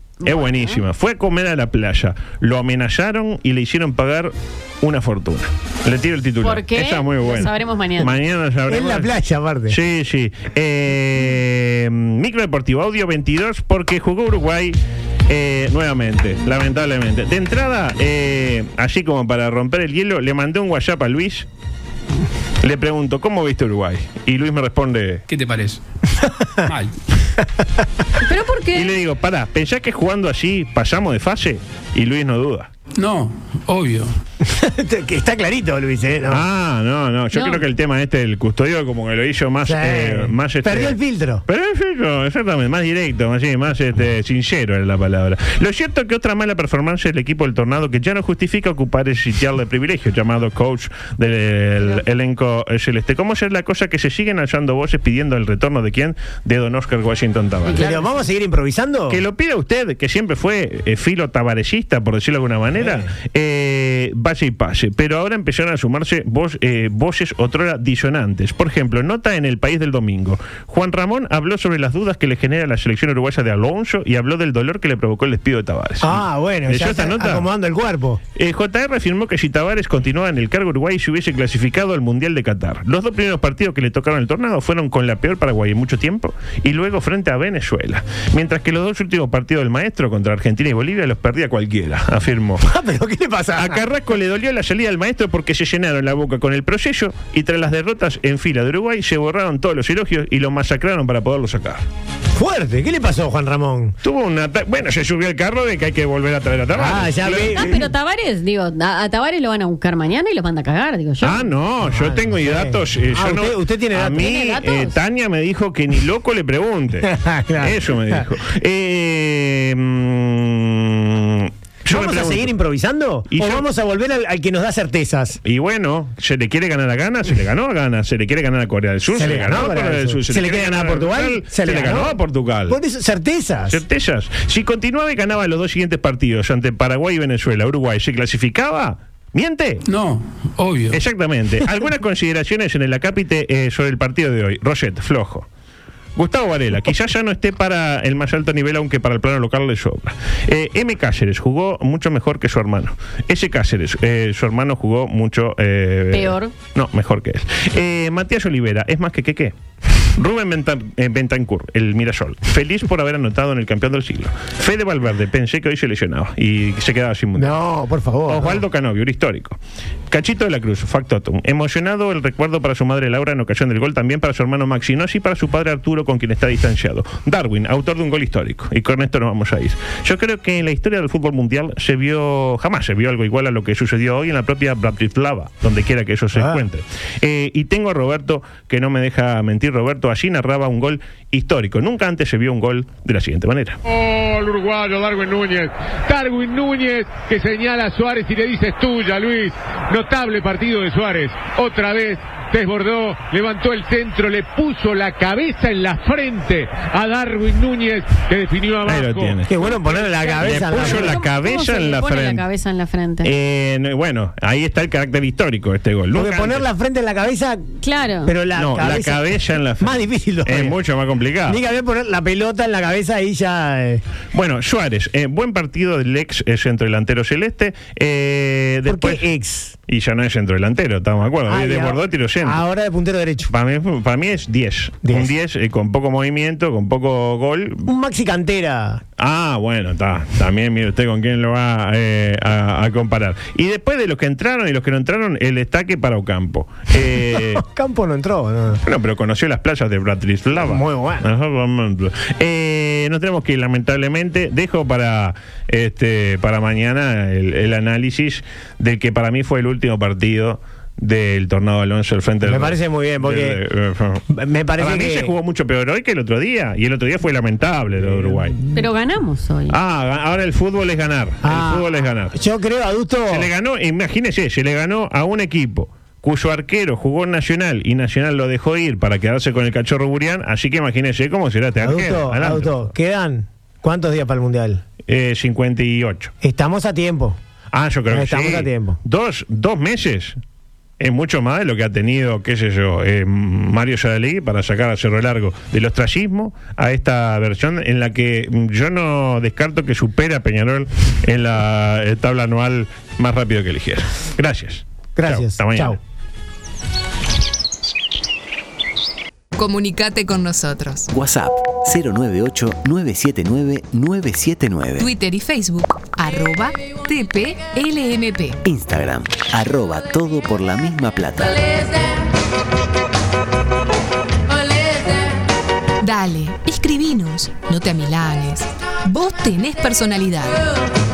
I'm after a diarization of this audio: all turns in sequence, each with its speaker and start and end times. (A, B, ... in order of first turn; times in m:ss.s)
0:00.2-0:00.8 A
0:00.2-0:09.1 B
0:06.4-0:08.1 A
0:08.7-0:09.8 C
0:09.7-0:21.4 B
0:22.6-0:25.2 B
0:25.3-0:25.8 D
0:26.2-0:26.7 C
0:26.6-0:26.9 D
0:28.2-0:28.9 A
0:28.7-0:32.7 B
0:33.0-0:34.1 D
0:34.4-0:36.4 C
0:36.3-0:57.8 B
0:37.3-0:37.6 A
0:39.6-0:41.4 C
0:57.7-0:58.2 A
0:57.7-0:59.2 C
0:59.1-1:17.5 B
1:02.8-1:03.1 C
1:16.0-1:18.2 C
1:18.4-1:32.7 B
1:32.6-1:33.8 C
1:33.6-1:41.8 B
1:42.3-1:43.9 C
1:44.0-1:47.8 B
1:46.7-1:47.9 C
1:47.3-1:51.4 A
1:51.2-2:02.5 B
1:51.8-1:54.3 C
1:54.2-1:55.0 A
1:57.0-1:58.3 C
2:01.9-2:05.4 C
2:03.3-2:03.6 B
2:05.4-2:12.8 B
2:09.1-2:13.8 C
2:13.7-2:19.8 B
2:19.9-2:21.0 D
2:20.9-2:25.4 B
2:26.2-2:39.5 B
2:36.1-2:36.5 A
2:40.2-2:47.6 B
2:47.4-2:48.6 C
2:48.3-2:49.6 B
2:50.1-3:13.8 B
3:06.3-3:06.6 C
3:13.9-3:29.4 E
3:28.8-3:29.5 B
3:29.5-3:31.2 C
3:30.0-3:33.3 A
3:30.4-3:32.4 B
3:33.2-3:36.6 B
3:36.1-3:37.7 C
3:37.8-3:38.3 A
3:38.2-3:40.8 C
3:38.5-3:41.6 B
3:41.4-3:44.0 C
3:44.3-3:49.2 B
3:48.9-3:49.7 C
3:49.9-3:52.6 B
3:51.5-3:53.5 C
3:53.5-3:57.9 B
3:55.0-3:55.3 C
3:57.9-3:59.0 C
3:59.2-4:07.6 B
4:06.9-4:08.8 C
4:08.8-4:24.2 B
4:10.6-4:11.2 C
4:22.4-4:23.6 C
4:24.3-4:25.3 C
4:24.8-4:28.6 B
4:28.0-4:28.6 C
4:28.7-4:29.8 A
4:29.7-4:32.3 B
4:31.4-4:33.5 C
4:33.3-4:42.9 B
4:41.8-4:44.8 C
4:45.1-4:46.3 B
4:46.4-4:47.4 C
4:47.7-4:50.4 B
4:48.1-4:49.0 C
4:51.0-5:06.0 B
5:05.2-5:06.0 C
5:09.5-5:11.1 F
5:11.1-5:15.1 G
5:15.0-5:18.6 F
5:18.6-5:21.8 G
5:26.0-5:30.6 F